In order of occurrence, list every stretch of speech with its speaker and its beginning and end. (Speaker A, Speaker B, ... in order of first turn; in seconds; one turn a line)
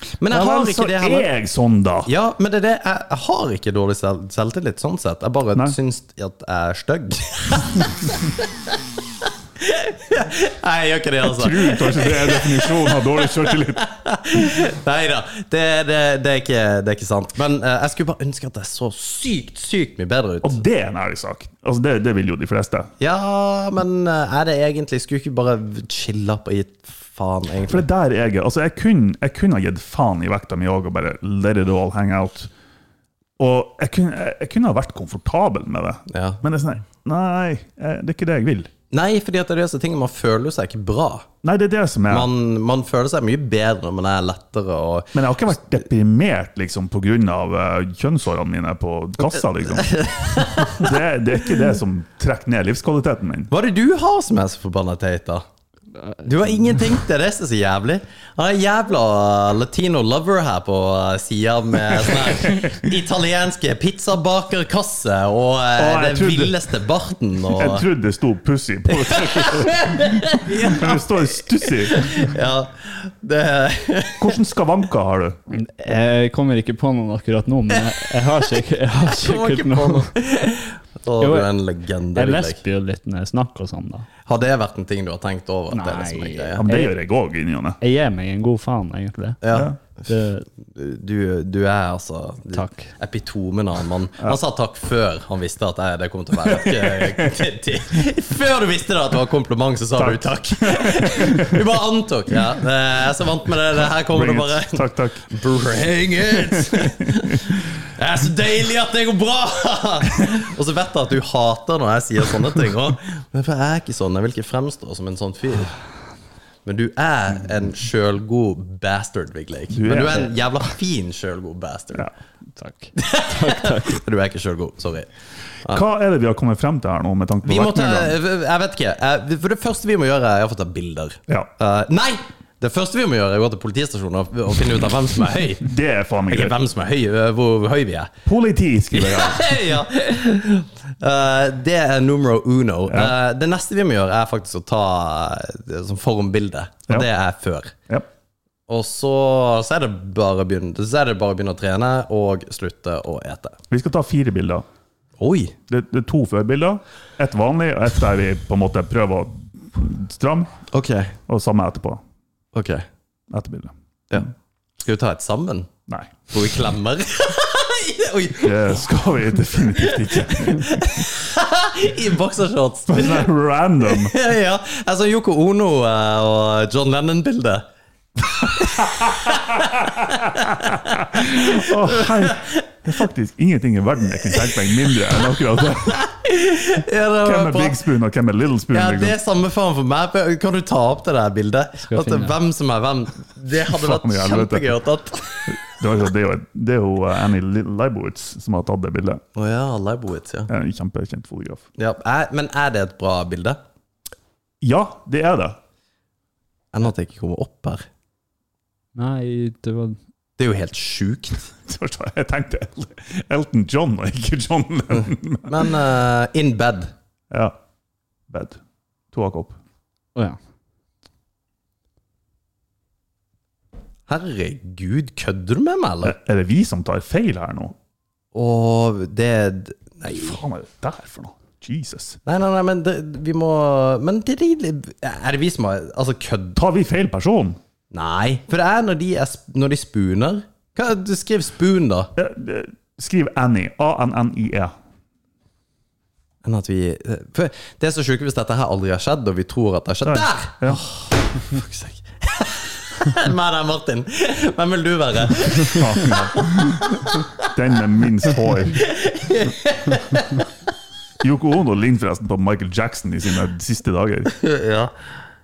Speaker A: 0.2-1.3
Speaker B: 0.3-2.1
Speaker A: 2.1-8.7
Speaker A: 9.6-20.6
Speaker B: 11.2-13.8
Speaker B: 20.4-22.9
Speaker A: 23.0-27.9
Speaker B: 27.7-32.5
Speaker B: 33.4-38.7
Speaker A: 36.1-36.4
Speaker A: 38.9-41.3
Speaker B: 41.4-42.3
Speaker A: 42.1-45.1
Speaker B: 45.1-53.5
Speaker A: 49.3-50.9
Speaker A: 53.5-55.5
Speaker A: 56.2-67.9
Speaker B: 62.3-62.8
Speaker B: 65.8-66.6
Speaker B: 67.5-72.3
Speaker A: 68.9-74.4
Speaker B: 74.2-75.4
Speaker C: 75.5-80.1
Speaker A: 79.1-82.6
Speaker C: 81.2-81.5
Speaker C: 82.2-84.1
Speaker A: 84.3-86.6
Speaker C: 85.7-86.9
Speaker B: 86.6-87.8
Speaker C: 87.8-89.4
Speaker A: 89.4-89.7
Speaker C: 90.1-90.5
Speaker A: 90.7-115.7
Speaker C: 92.5-92.9
Speaker B: 96.5-97.3
Speaker B: 100.0-101.6
Speaker B: 104.0-105.3
Speaker B: 106.5-106.9
Speaker A: 116.7-122.1
Speaker B: 119.7-120.4
Speaker C: 122.6-124.0
Speaker A: 123.0-125.1
Speaker B: 125.7-128.1
Speaker A: 127.5-135.7
Speaker B: 135.6-136.6
Speaker A: 136.3-138.1
Speaker B: 138.3-139.6
Speaker A: 138.9-147.8
Speaker B: 142.9-143.1
Speaker A: 148.7-153.6
Speaker B: 153.7-154.7
Speaker A: 155.2-155.6
Speaker B: 155.7-160.5
Speaker A: 160.7-161.2
Speaker B: 161.3-162.0
Speaker A: 162.5-162.9
Speaker B: 163.3-164.3
Speaker A: 164.8-165.7
Speaker B: 165.9-166.3
Speaker A: 166.3-168.9
Speaker B: 168.4-171.1
Speaker A: 169.5-173.3
Speaker B: 172.9-174.2
Speaker A: 173.8-177.7
Speaker A: 178.3-182.7
Speaker B: 178.6-186.1
Speaker A: 184.3-184.9
Speaker A: 185.9-187.8
Speaker B: 187.2-189.2
Speaker A: 188.7-195.6
Speaker C: 191.8-192.4
Speaker B: 193.6-194.7
Speaker B: 195.5-199.2
Speaker A: 199.3-200.5
Speaker B: 200.5-201.6
Speaker A: 201.8-203.6
Speaker B: 204.6-205.6
Speaker A: 206.7-207.9
Speaker C: 209.0-210.0
Speaker A: 210.4-211.4
Speaker B: 211.6-215.7
Speaker A: 215.0-216.9
Speaker B: 217.3-217.6
Speaker B: 218.3-218.6
Speaker B: 219.1-219.6
Speaker A: 224.1-226.2
Speaker B: 226.0-227.8
Speaker A: 228.3-230.4
Speaker B: 230.1-232.2
Speaker A: 232.3-236.6
Speaker B: 236.6-237.6
Speaker A: 237.9-242.1
Speaker B: 242.2-244.7
Speaker A: 246.4-257.5
Speaker B: 250.1-250.8
Speaker B: 255.7-258.9
Speaker A: 258.8-260.4
Speaker B: 261.2-264.3
Speaker A: 264.3-264.9